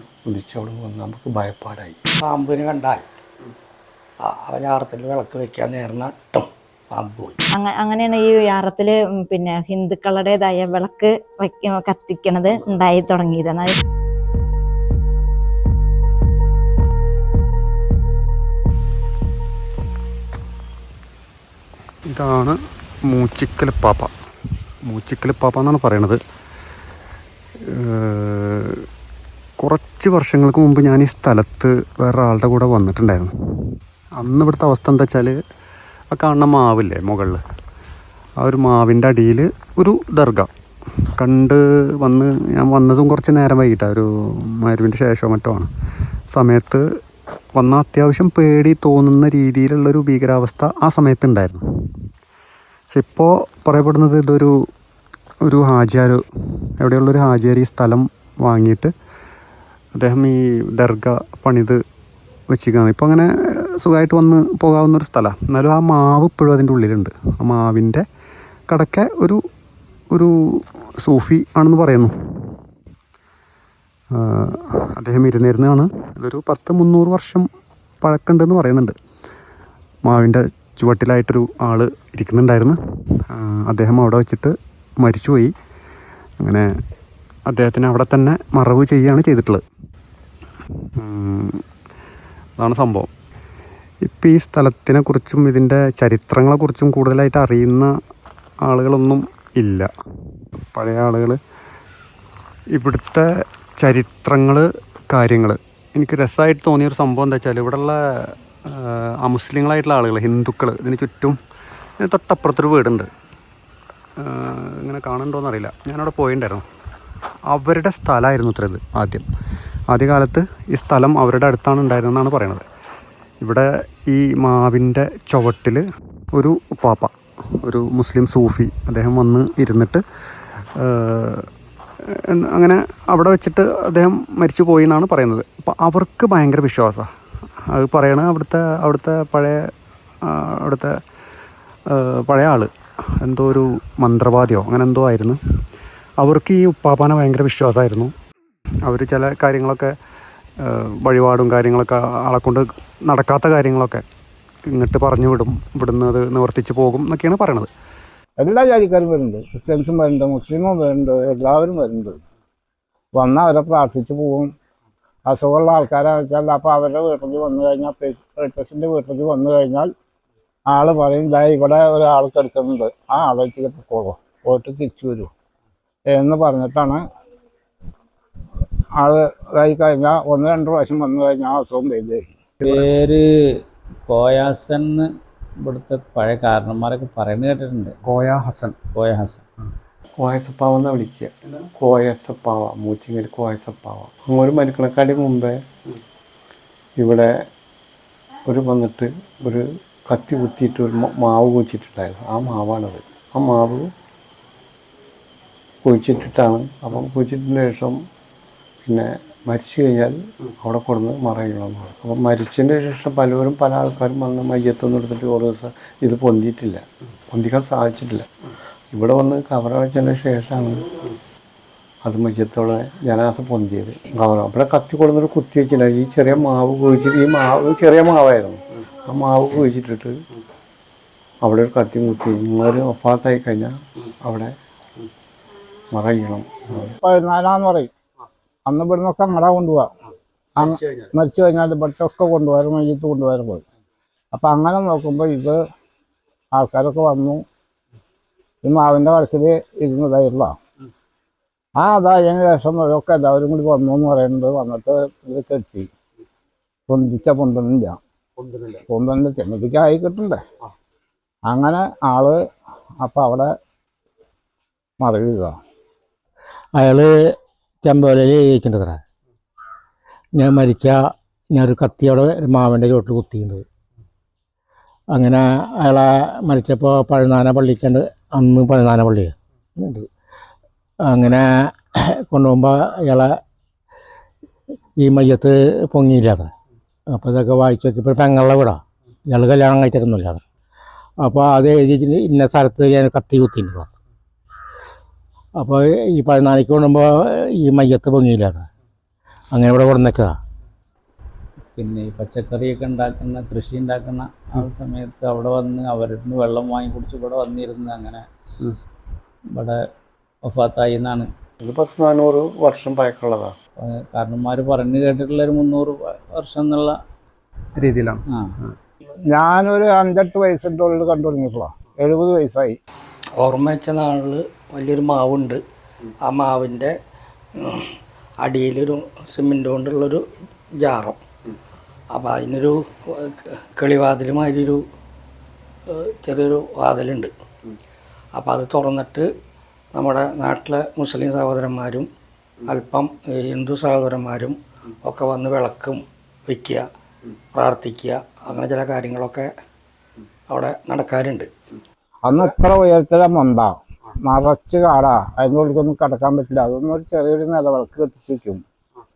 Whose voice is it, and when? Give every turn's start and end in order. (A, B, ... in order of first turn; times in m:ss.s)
0:00.3-0:02.0 A
0:02.2-0:03.0 B
0:04.3-0:07.4 B
0:07.5-0:13.8 C
0:22.1-0:22.6 D
0:23.1-0:24.1 D
0:24.9-0:26.2 D
0:27.9-0:28.8 D
0:29.6-0:33.3 D
0:34.2-0:35.4 D
0:36.1-0:37.4 D
0:38.4-0:40.5 D
0:41.2-0:44.1 D
0:44.6-0:45.7 D
0:46.3-0:46.8 D
0:47.6-0:51.6 D
0:52.9-0:54.5 D
0:55.5-0:56.2 D
0:56.8-0:58.9 D
1:00.0-1:01.8 D
1:02.5-1:03.3 D
1:03.8-1:08.0 D
1:08.7-1:09.4 D
1:11.0-1:12.1 D
1:14.2-1:17.5 D
1:18.0-1:19.0 D
1:20.1-1:22.8 D
1:23.3-1:25.5 D
1:27.5-1:29.6 D
1:31.0-1:31.5 D
1:32.6-1:33.1 D
1:34.1-1:37.9 D
1:38.7-1:39.9 D
1:40.8-1:41.4 D
1:42.8-1:43.2 D
1:43.8-1:48.0 D
1:48.7-1:51.4 D
1:52.0-1:53.1 D
1:54.2-1:56.6 D
1:57.5-1:59.2 D
1:59.9-2:02.6 D
2:03.4-2:05.8 D
2:06.4-2:07.1 D
2:07.7-2:10.0 D
2:10.8-2:11.4 D
2:12.3-2:17.1 D
2:17.7-2:19.6 D
2:20.3-2:20.9 D
2:21.9-2:22.7 D
2:23.2-2:25.4 D
2:26.2-2:28.1 D
2:28.9-2:29.9 D
2:30.6-2:34.0 D
2:34.7-2:37.7 D
2:38.4-2:42.2 E
2:43.2-2:44.5 E
2:45.3-2:49.9 E
2:50.7-2:55.3 E
2:56.1-2:57.0 E
2:59.0-3:02.3 E
3:02.6-3:03.2 F
3:04.1-3:05.1 F
3:05.6-3:08.0 F
3:08.0-3:08.8 D
3:09.0-3:09.4 F
3:10.2-3:15.6 A
3:17.0-3:17.3 A
3:18.5-3:23.9 A
3:25.8-3:28.0 A
3:28.9-3:38.3 A
3:38.9-3:40.9 A
3:42.0-3:50.2 A
3:51.4-3:54.5 A
3:55.9-3:56.9 A
3:56.9-3:57.9 E
3:58.7-3:59.9 E
4:00.6-4:03.6 E
4:04.3-4:05.6 E
4:06.5-4:07.4 E
4:08.6-4:10.5 E
4:11.8-4:15.9 E
4:16.9-4:18.0 E
4:18.7-4:20.4 E
4:21.5-4:22.4 E
4:23.0-4:23.5 E
4:25.0-4:25.6 E
4:26.8-4:27.3 G
4:27.8-4:29.0 G
4:30.4-4:33.6 G
4:35.1-4:40.1 G
4:41.1-4:43.4 G
4:45.0-4:46.5 G
4:47.1-4:50.4 G
4:51.2-4:53.9 G
4:55.6-4:58.7 G
4:59.5-5:00.3 G
5:01.8-5:08.2 F
5:10.5-5:11.3 F
5:11.6-5:13.5 A
5:14.1-5:17.0 F
5:17.8-5:18.2 D
5:18.3-5:18.6 F
5:19.3-5:22.8 E
5:23.4-5:25.6 B
5:26.3-5:26.9 B
5:27.6-5:30.2 B
5:30.8-5:31.2 B
5:32.1-5:34.8 B
5:35.9-5:37.3 B
5:38.4-5:39.3 B
5:40.0-5:42.1 B
5:42.7-5:46.8 B
5:47.5-5:49.5 B
5:50.5-5:51.5 B
5:52.2-5:58.6 E